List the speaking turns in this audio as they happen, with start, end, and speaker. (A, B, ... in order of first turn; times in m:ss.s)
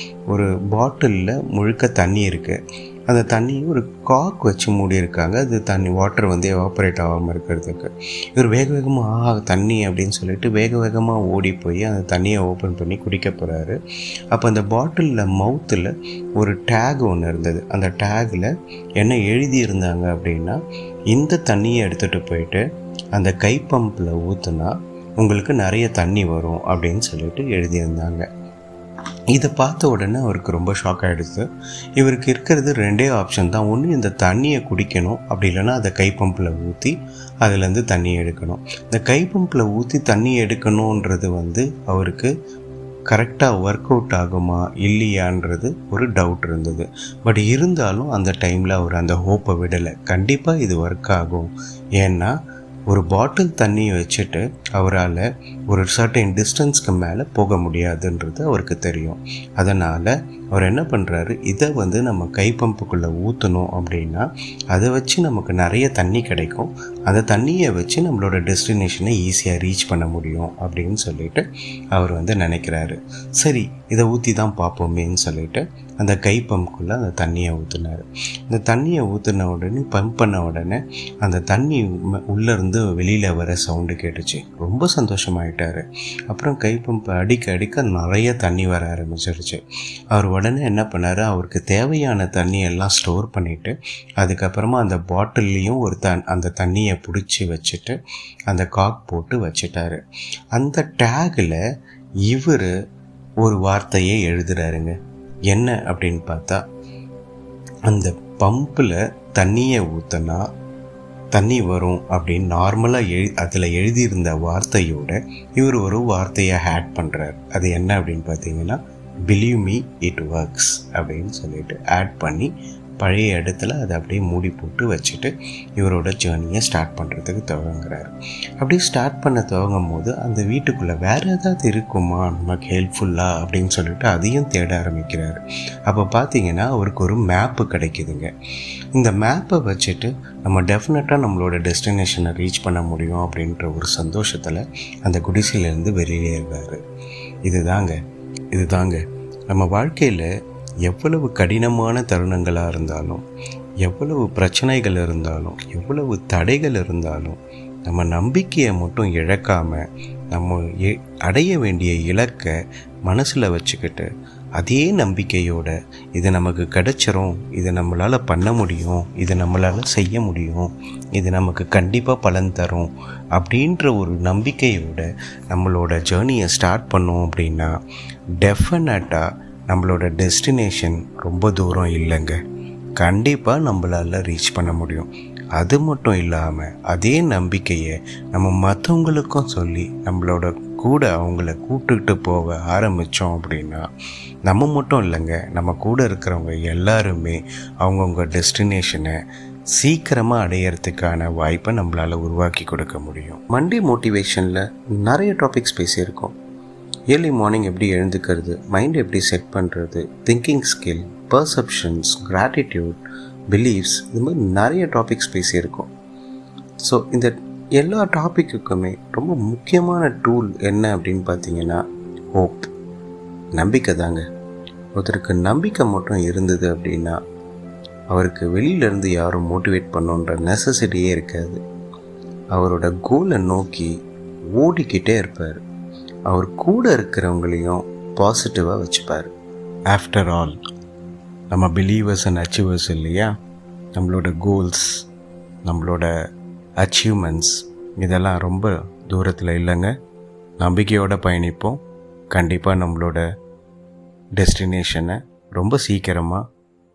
0:00.3-0:02.6 A
0:03.1-0:13.8 A
0:14.3-0:20.6 A
0:21.1-0:22.6 A
0:23.1-0:28.2 A
0:29.3-0:31.5 A
0:32.0-0:42.3 A
0:43.1-0:52.3 A
0:52.9-1:29.6 A
1:30.1-1:40.0 A
1:40.5-1:41.6 A
1:42.3-1:42.7 A
1:43.4-1:45.0 A
1:45.5-1:46.6 A
1:47.9-1:50.4 A
1:51.3-2:18.3 A
2:18.9-2:26.8 A
2:27.4-2:28.0 A
2:28.5-2:30.3 A
2:30.8-2:33.2 A
2:33.8-2:42.5 A
2:43.1-2:57.8 A
2:58.4-3:02.4 A
3:03.0-3:13.8 A
3:14.5-3:19.2 A
3:19.8-3:26.3 A
3:27.1-3:33.0 A
3:33.5-3:35.9 A
3:36.8-3:41.8 A
3:42.3-3:42.7 A
3:43.6-3:44.2 A
3:45.0-3:47.2 A
3:48.1-3:51.6 A
3:52.5-3:53.9 A
3:54.6-3:55.6 A
3:56.3-3:59.3 A
3:59.9-4:00.6 A
4:01.5-4:03.3 A
4:04.0-4:05.1 A
4:05.7-4:06.1 A
4:06.8-4:09.9 A
4:10.6-4:11.8 A
4:12.3-4:13.2 A
4:14.4-4:16.4 A